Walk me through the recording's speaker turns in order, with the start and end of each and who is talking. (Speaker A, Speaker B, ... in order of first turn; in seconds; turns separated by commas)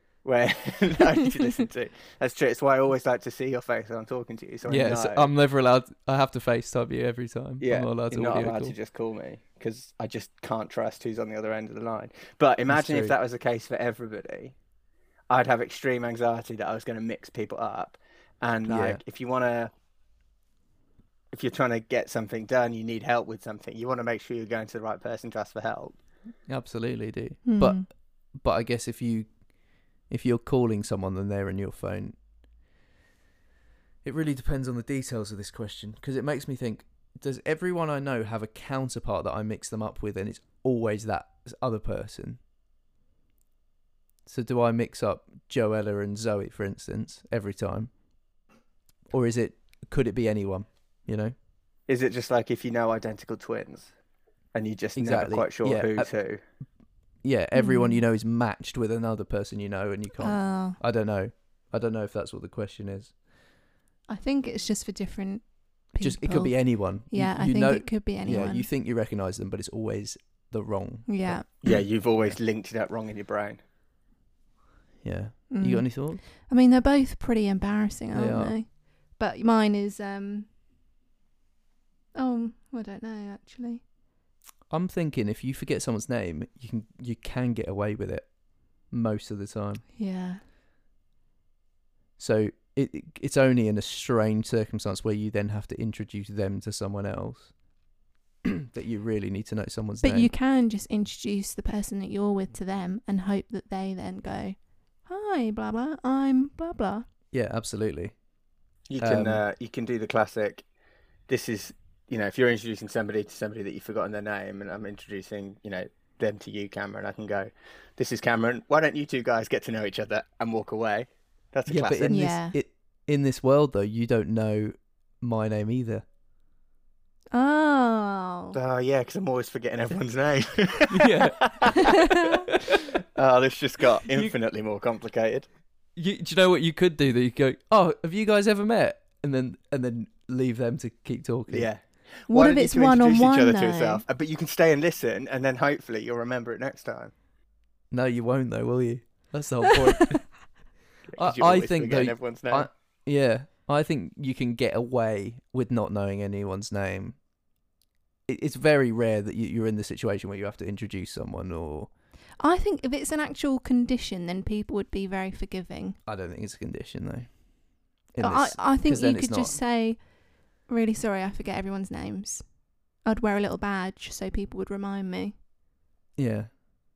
Speaker A: 0.2-5.3, Speaker B: 4.7-8.7, Speaker A: 7.6-14.6, Speaker B: 12.7-13.1, Speaker A: 15.3-19.7, Speaker B: 18.7-19.0, Speaker A: 21.3-26.0, Speaker B: 26.5-29.3, Speaker C: 27.5-27.9, Speaker B: 30.1-32.2, Speaker B: 34.0-42.4, Speaker B: 44.3-47.9, Speaker B: 49.1-51.4, Speaker A: 51.9-53.9, Speaker A: 54.5-56.4, Speaker B: 55.0-56.1, Speaker B: 57.2-63.1, Speaker C: 57.5-58.0, Speaker C: 60.2-60.8, Speaker C: 64.1-68.7, Speaker B: 66.0-72.3, Speaker C: 71.1-71.5, Speaker A: 71.6-73.6, Speaker B: 75.0-76.2, Speaker C: 75.5-80.5, Speaker B: 78.1-78.5, Speaker C: 82.2-83.8, Speaker B: 84.7-88.3, Speaker B: 88.8-89.8, Speaker C: 90.0-90.4, Speaker B: 92.2-97.5, Speaker B: 98.5-100.3, Speaker C: 100.0-107.1, Speaker B: 107.3-108.2, Speaker A: 108.9-110.7, Speaker B: 109.0-109.4, Speaker A: 111.3-122.2, Speaker B: 121.7-126.0, Speaker C: 122.1-122.6, Speaker C: 127.3-128.6, Speaker A: 128.5-132.1, Speaker B: 130.9-133.0, Speaker C: 131.9-132.4, Speaker A: 133.0-135.5, Speaker B: 136.0-141.7, Speaker A: 141.5-147.1, Speaker C: 142.3-144.0, Speaker B: 147.9-150.3, Speaker A: 151.1-152.7, Speaker B: 151.2-157.2, Speaker B: 158.3-161.9, Speaker C: 162.4-166.0, Speaker B: 166.1-167.3, Speaker B: 168.2-169.6, Speaker C: 168.2-170.1, Speaker C: 170.7-172.5, Speaker C: 173.1-175.3, Speaker B: 176.2-176.5